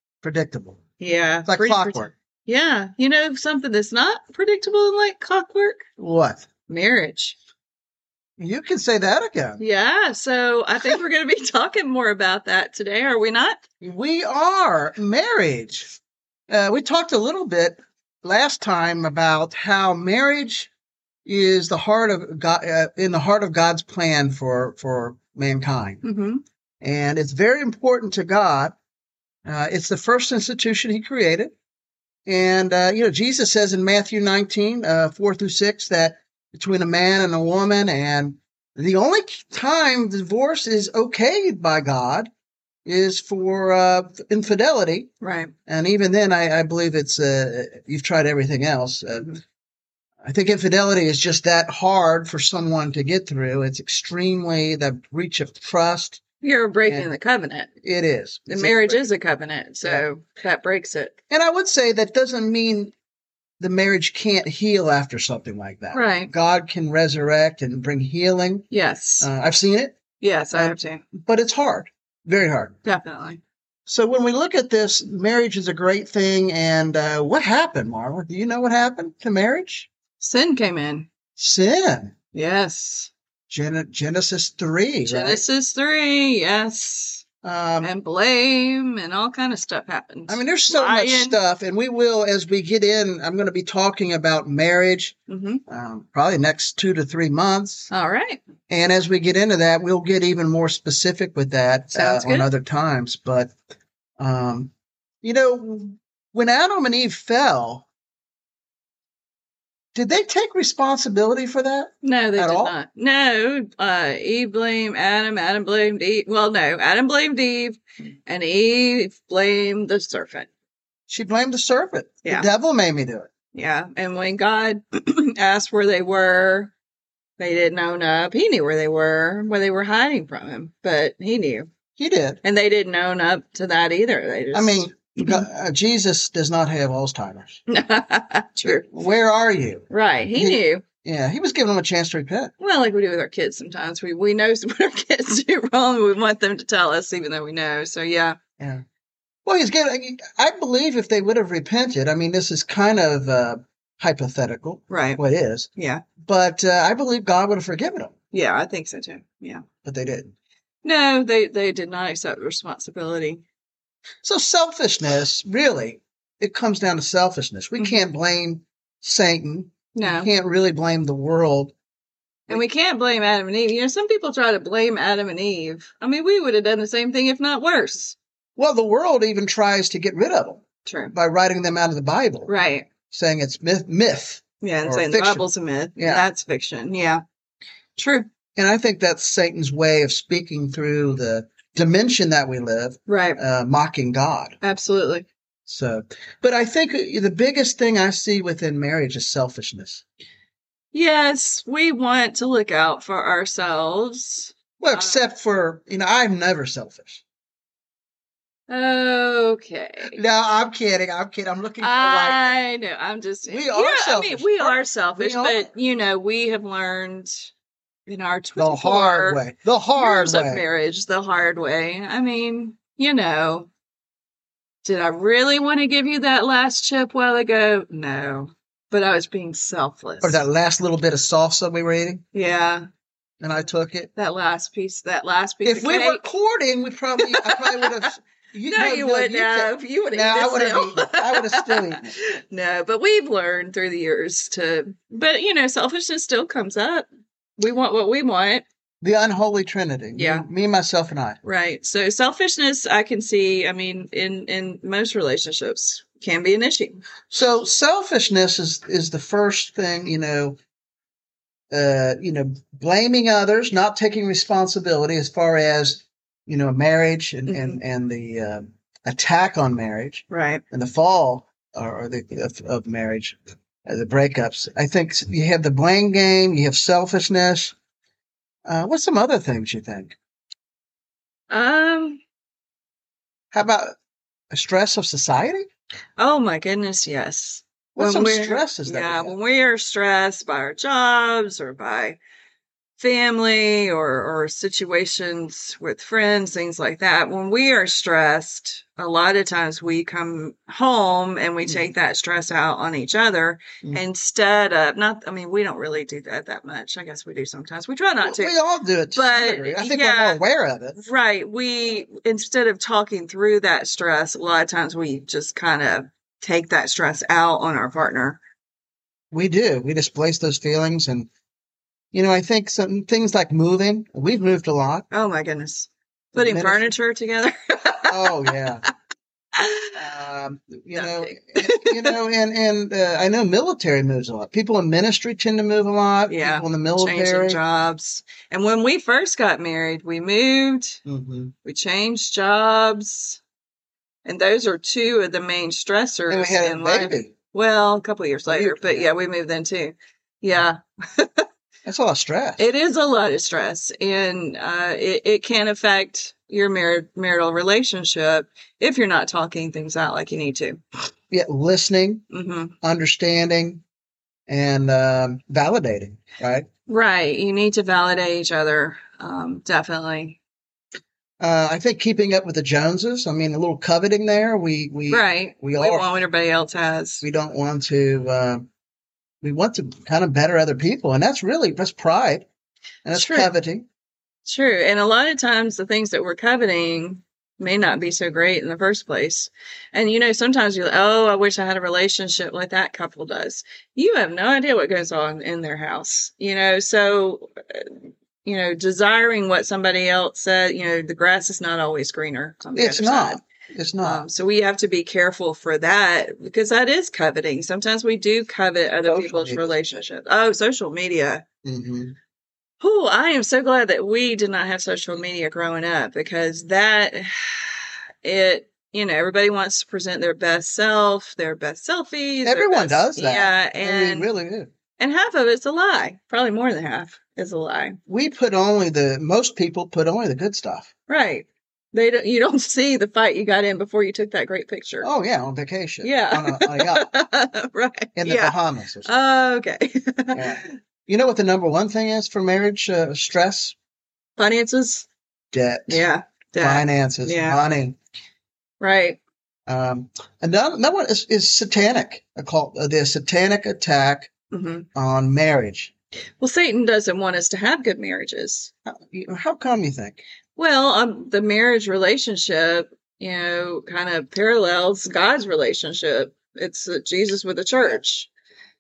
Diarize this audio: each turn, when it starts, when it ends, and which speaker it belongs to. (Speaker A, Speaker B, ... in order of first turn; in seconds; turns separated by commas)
Speaker A: 0.2-0.8, Speaker B: 1.0-5.8, Speaker A: 1.5-2.1, Speaker A: 6.0-6.4, Speaker B: 6.7-7.3, Speaker A: 8.4-9.6, Speaker B: 9.6-13.6, Speaker A: 13.8-15.9, Speaker A: 16.5-20.7, Speaker A: 21.2-26.0, Speaker B: 26.0-26.4, Speaker A: 26.8-28.7, Speaker A: 29.4-31.5, Speaker A: 32.2-42.3, Speaker A: 42.8-45.1, Speaker B: 45.2-45.5, Speaker A: 45.7-49.4, Speaker A: 50.2-56.2, Speaker B: 56.4-57.7, Speaker A: 57.8-59.0, Speaker B: 58.5-61.1, Speaker A: 61.3-62.9, Speaker A: 63.6-68.7, Speaker B: 65.9-66.3, Speaker B: 68.7-69.3, Speaker A: 69.2-70.0, Speaker B: 70.2-71.0, Speaker A: 70.5-72.7, Speaker B: 72.8-73.4, Speaker A: 73.9-79.9, Speaker B: 80.2-81.1, Speaker A: 81.4-82.1, Speaker B: 82.3-83.1, Speaker A: 83.5-85.4, Speaker B: 85.0-87.2, Speaker A: 87.4-87.9, Speaker B: 87.8-91.4, Speaker A: 90.3-95.2, Speaker B: 95.3-95.6, Speaker A: 95.7-97.9, Speaker B: 97.9-98.4, Speaker A: 98.7-103.5, Speaker B: 101.9-102.5, Speaker A: 104.2-104.7, Speaker A: 105.2-107.8, Speaker A: 109.9-112.7, Speaker B: 112.0-120.5, Speaker A: 121.1-123.3, Speaker B: 123.5-126.7, Speaker B: 127.4-131.7, Speaker A: 132.0-132.4, Speaker B: 132.4-135.4, Speaker A: 134.5-137.6, Speaker B: 137.7-138.9, Speaker A: 138.8-142.5, Speaker B: 139.9-140.8, Speaker B: 142.6-148.4, Speaker A: 148.6-148.8, Speaker A: 149.4-155.7, Speaker B: 154.9-155.2, Speaker B: 155.8-156.0, Speaker A: 156.2-158.1, Speaker B: 158.3-159.6, Speaker A: 159.8-160.3, Speaker B: 160.8-163.4, Speaker A: 164.2-171.7, Speaker B: 169.9-170.3, Speaker B: 172.5-178.2, Speaker A: 178.6-182.5, Speaker B: 180.8-181.1, Speaker B: 182.5-182.9, Speaker A: 183.1-185.4, Speaker B: 184.6-187.2, Speaker A: 186.0-186.2, Speaker B: 187.9-188.3, Speaker A: 188.6-194.6, Speaker B: 193.1-193.4, Speaker B: 194.6-195.2, Speaker A: 195.7-200.0, Speaker B: 200.9-205.2, Speaker A: 204.8-207.2, Speaker B: 208.7-210.2, Speaker A: 210.1-212.5, Speaker B: 211.8-217.5, Speaker A: 213.4-215.7, Speaker B: 218.1-219.4, Speaker A: 218.6-220.6, Speaker B: 219.9-223.7, Speaker B: 224.8-230.4, Speaker A: 230.2-232.2, Speaker B: 232.3-232.8, Speaker A: 233.4-234.1, Speaker B: 234.2-236.2, Speaker A: 235.6-242.1, Speaker B: 237.2-238.1, Speaker B: 238.7-248.6, Speaker A: 249.0-251.4, Speaker B: 250.1-250.4, Speaker B: 251.4-257.0, Speaker A: 257.3-260.6, Speaker A: 261.7-277.7, Speaker B: 267.5-267.8, Speaker B: 270.3-270.6, Speaker A: 278.6-280.1, Speaker B: 281.5-282.2, Speaker A: 283.5-283.9, Speaker A: 284.5-285.6, Speaker B: 286.2-292.2, Speaker A: 287.9-289.3, Speaker B: 293.0-308.5, Speaker A: 308.2-311.0, Speaker B: 309.1-310.4, Speaker B: 311.0-318.4, Speaker A: 319.3-321.3, Speaker A: 322.1-325.1, Speaker B: 325.1-328.5, Speaker A: 326.3-326.9, Speaker A: 328.1-328.8, Speaker B: 329.5-330.0, Speaker A: 329.9-337.6, Speaker B: 330.9-332.2, Speaker B: 336.3-341.0, Speaker A: 341.1-341.5, Speaker B: 341.6-343.4, Speaker B: 344.2-351.5, Speaker A: 346.3-347.3, Speaker A: 348.4-349.1, Speaker A: 351.8-352.7, Speaker B: 352.6-360.8, Speaker A: 361.3-362.2, Speaker B: 362.3-362.7, Speaker A: 362.8-363.8, Speaker A: 364.5-366.7, Speaker B: 366.9-370.4, Speaker A: 371.4-376.0, Speaker B: 375.1-377.2, Speaker A: 377.2-378.7, Speaker A: 379.4-382.4, Speaker A: 383.0-383.9, Speaker B: 383.1-383.5, Speaker B: 384.4-397.9, Speaker B: 398.4-403.4, Speaker A: 402.7-404.2, Speaker B: 404.0-411.4, Speaker A: 409.0-409.8, Speaker A: 411.6-412.1, Speaker B: 412.8-424.3, Speaker A: 422.4-424.7, Speaker B: 425.0-428.0, Speaker A: 428.1-430.9, Speaker B: 431.1-435.1, Speaker A: 435.0-437.1, Speaker B: 436.0-440.7, Speaker A: 438.1-439.1, Speaker A: 440.3-443.8, Speaker B: 444.4-445.1, Speaker A: 445.5-446.0, Speaker B: 445.9-447.6, Speaker A: 446.6-448.0, Speaker B: 448.8-449.2, Speaker A: 449.7-454.3, Speaker B: 454.5-454.9, Speaker A: 454.9-455.9, Speaker B: 456.4-458.7, Speaker A: 458.9-460.2, Speaker B: 460.6-468.3